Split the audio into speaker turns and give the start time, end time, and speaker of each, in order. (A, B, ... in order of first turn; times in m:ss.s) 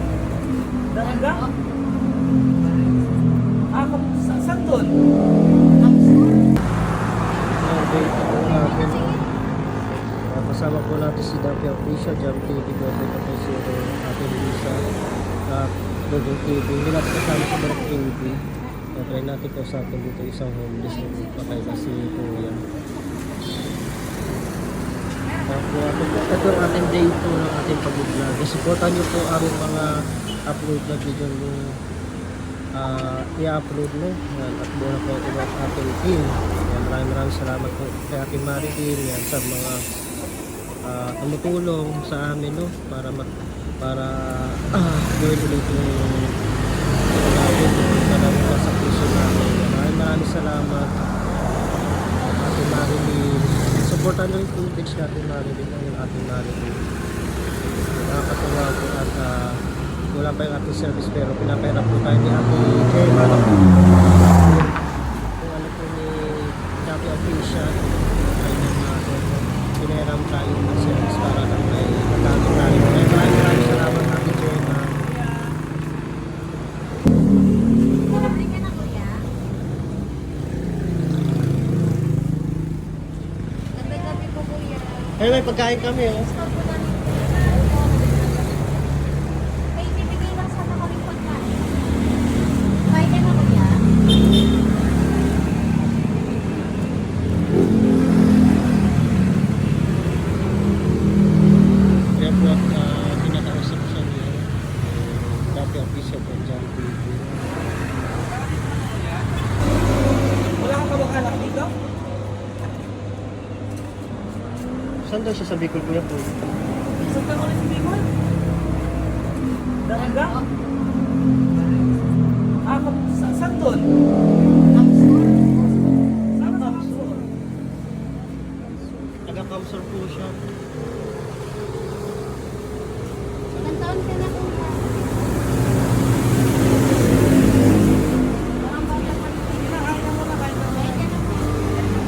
0:00.9-0:01.4 A
0:03.7-0:04.9 A
0:07.6-0:09.2 B
0:10.3-0:14.8 B
0:15.5-0:18.4 B
0:18.9-0:22.6 B
0:25.5-0:29.9 B
0:30.5-0:31.8 B
0:32.8-0:39.8 B
0:40.8-0:43.3 B
0:43.8-0:46.3 B
0:47.1-0:50.9 B
0:52.3-0:56.8 B
0:57.9-0:59.6 B
1:00.1-1:04.5 B
1:05.4-1:15.1 B
1:18.1-1:19.2 C
1:23.8-1:28.5 C
1:25.2-1:26.3 B
1:29.8-1:31.6 C
1:32.9-1:33.7 C
1:42.2-1:47.6 B
1:50.6-1:51.7 A
1:55.0-1:56.3 B
1:57.0-1:58.1 A
1:59.8-2:00.4 A
2:02.6-2:03.9 A
2:04.9-2:05.4 C
2:06.4-2:07.2 A
2:09.2-2:10.4 B
2:13.6-2:14.9 C
2:18.6-2:19.9 C
2:19.7-2:20.8 A
2:20.7-2:21.6 C